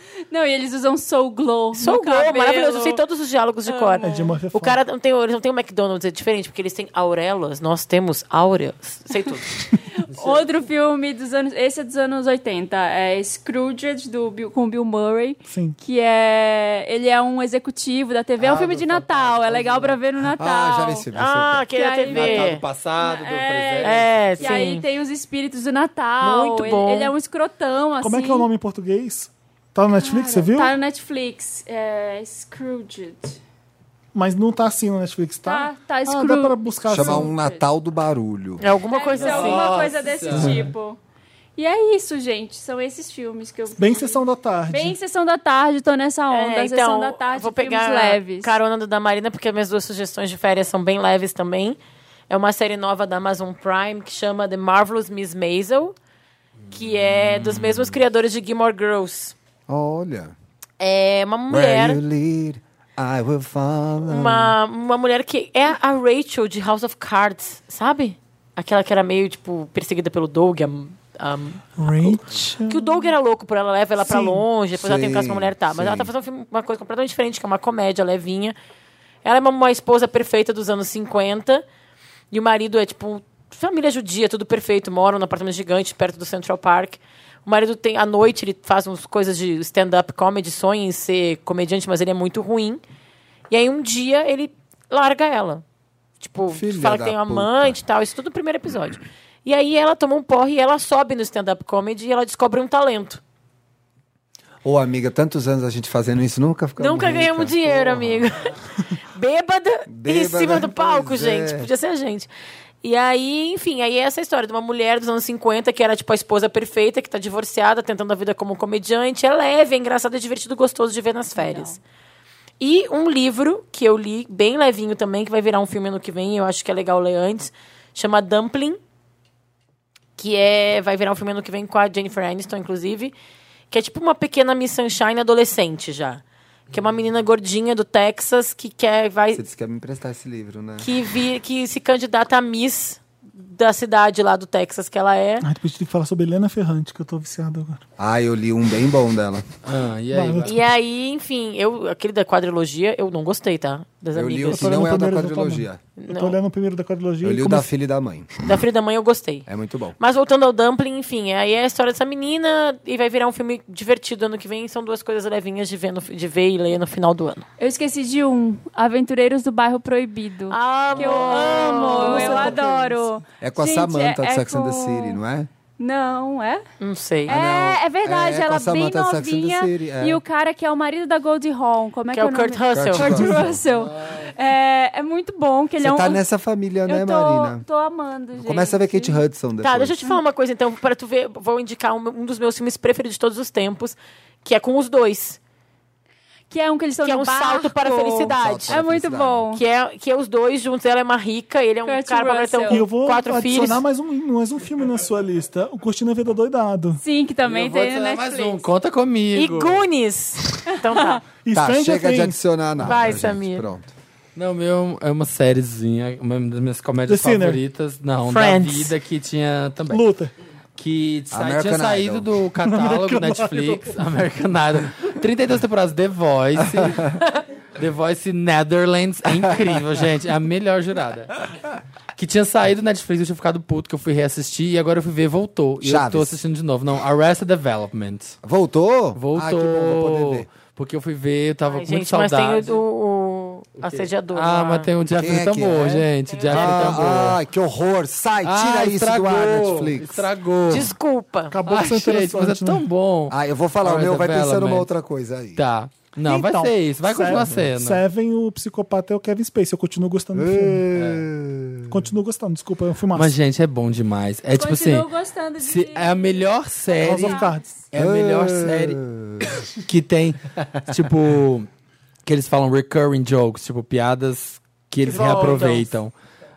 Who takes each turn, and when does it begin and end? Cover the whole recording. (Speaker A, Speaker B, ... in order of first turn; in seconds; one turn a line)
Speaker A: 0.3-3.0
Speaker B: 1.7-9.6
Speaker A: 3.6-4.1
Speaker C: 4.0-4.8
Speaker A: 10.0-21.1
Speaker D: 10.1-10.4
Speaker C: 15.5-15.8
Speaker D: 18.4-20.0
Speaker E: 20.4-21.6
Speaker B: 21.1-22.6
Speaker A: 21.7-28.5
Speaker D: 22.1-24.6
Speaker B: 23.8-24.8
Speaker B: 26.2-27.1
Speaker C: 28.0-30.7
Speaker A: 30.0-33.4
Speaker C: 34.1-37.3
Speaker A: 35.5-37.6
Speaker E: 36.9-38.6
Speaker B: 38.6-39.7
Speaker A: 38.9-41.0
Speaker D: 39.2-40.6
Speaker E: 40.3-40.6
Speaker A: 41.6-44.1
Speaker C: 43.8-45.0
Speaker A: 44.7-48.5
Speaker B: 46.3-51.8
Speaker B: 52.3-55.9
Speaker B: 56.7-59.3
Speaker E: 59.7-60.3
Speaker B: 60.8-62.0
Speaker E: 61.5-64.5
Speaker B: 64.1-78.5
Speaker C: 71.7-73.1
Speaker C: 74.0-74.4
Speaker E: 74.8-76.1
Speaker B: 79.2-81.6
Speaker B: 82.3-92.8
Speaker B: 93.5-95.6
Speaker B: 96.2-103.2
Speaker E: 96.5-97.8
Speaker E: 104.6-108.3
Speaker B: 106.8-108.4
Speaker B: 109.1-112.3
Speaker E: 109.9-111.7
Speaker B: 112.8-121.8
Speaker A: 121.3-121.8
Speaker B: 122.6-128.8
Speaker B: 130.2-133.1
Speaker B: 133.7-139.4
Speaker E: 139.3-140.9
Speaker B: 140.8-145.5
Speaker C: 145.4-147.8
Speaker E: 148.0-149.4
Speaker D: 149.6-150.6
Speaker C: 150.1-150.6
Speaker B: 150.4-154.9
Speaker E: 154.1-155.8
Speaker C: 154.5-157.7
Speaker B: 156.0-156.3
Speaker E: 157.2-158.4
Speaker B: 158.4-159.5
Speaker E: 159.5-160.0
Speaker B: 160.0-167.5
Speaker A: 167.6-175.2
Speaker B: 170.5-172.8
Speaker E: 172.3-172.7
Speaker E: 173.4-175.5
Speaker A: 175.8-176.6
Speaker B: 176.8-177.3
Speaker E: 177.2-180.2
Speaker A: 177.3-186.2
Speaker B: 182.1-183.3
Speaker E: 182.7-183.6
Speaker D: 183.8-184.3
Speaker E: 185.8-187.6
Speaker A: 186.8-189.2
Speaker E: 188.4-190.0
Speaker B: 189.6-195.4
Speaker A: 196.5-199.6
Speaker B: 197.0-198.8
Speaker E: 198.3-199.5
Speaker B: 199.5-203.8
Speaker A: 201.8-202.8
Speaker C: 202.7-207.0
Speaker A: 207.0-208.6
Speaker D: 207.4-209.8
Speaker B: 209.3-211.2
Speaker A: 210.7-211.2
Speaker C: 211.3-212.4
Speaker E: 211.5-213.9
Speaker B: 212.8-213.7
Speaker D: 214.3-220.0
Speaker C: 217.1-217.6
Speaker B: 218.2-218.9
Speaker C: 219.9-220.3
Speaker D: 220.8-227.2
Speaker E: 221.3-222.3
Speaker C: 222.6-224.0
Speaker E: 226.8-227.1
Speaker D: 227.8-231.4
Speaker D: 232.2-238.4
Speaker E: 235.8-236.4
Speaker E: 238.4-240.5
Speaker D: 239.2-242.8
Speaker B: 241.7-244.9
Speaker D: 243.8-247.4
Speaker E: 245.2-250.2
Speaker B: 246.3-247.0
Speaker D: 248.4-250.9
Speaker B: 250.7-251.6
Speaker C: 251.5-252.8
Speaker D: 251.7-254.9
Speaker E: 253.3-255.6
Speaker D: 255.6-258.0
Speaker C: 256.2-260.8
Speaker E: 257.3-257.6
Speaker E: 260.3-262.0
Speaker D: 260.9-261.2
Speaker C: 261.9-263.3
Speaker D: 263.1-265.1
Speaker A: 264.6-266.2
Speaker D: 265.6-269.0
Speaker A: 266.9-267.5
Speaker C: 267.0-267.8
Speaker E: 267.9-269.5
Speaker D: 269.7-271.7
Speaker D: 272.2-276.1
Speaker B: 275.0-275.9